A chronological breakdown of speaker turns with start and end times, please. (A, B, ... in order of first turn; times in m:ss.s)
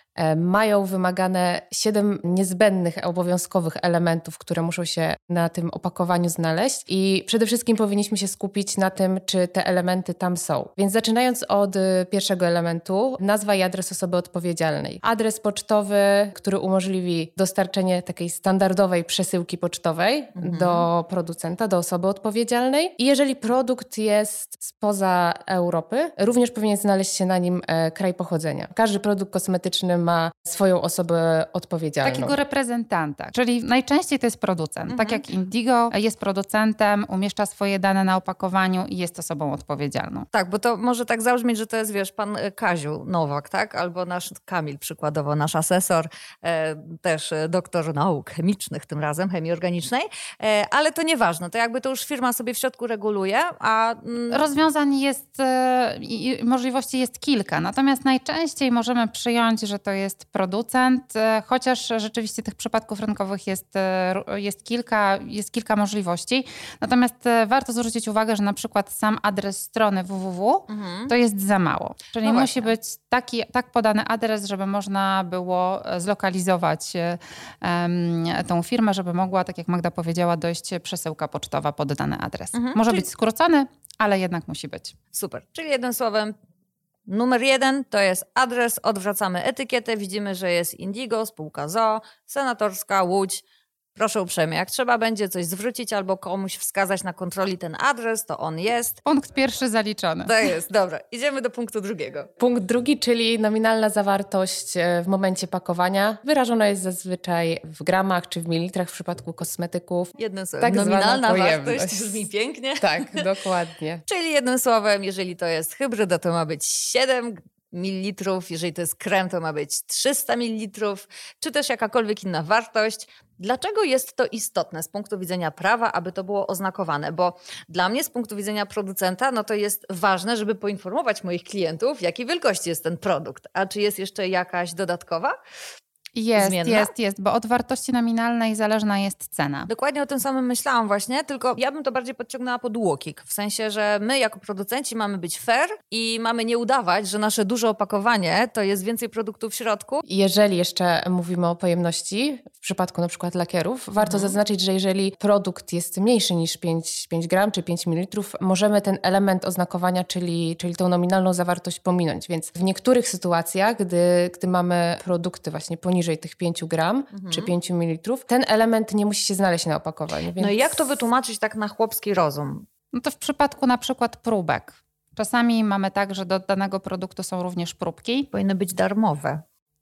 0:00.2-0:32.4 A
0:20.4-0:20.8 B
0:32.0-0:40.3 C
0:34.9-0:35.2 B
0:40.3-0:54.4 B
0:54.3-1:25.0 C
1:10.7-1:11.1 B
1:12.2-1:12.7 B
1:22.5-1:23.0 B
1:25.1-1:26.3 B
1:27.1-1:33.4 B
1:34.0-1:39.0 B
1:39.0-1:40.5 C
1:40.2-1:42.3 B
1:42.4-1:52.3 A
1:50.2-1:53.2 B
1:52.8-1:54.0 A
1:54.1-2:15.4 B
2:16.1-2:19.7 C
2:16.4-2:16.9 B
2:19.7-2:30.0 B
2:30.0-2:50.9 A
2:34.0-2:34.4 B
2:47.1-2:47.5 B
2:50.4-2:52.6 B
2:52.9-2:58.3 C
2:58.3-2:59.4 B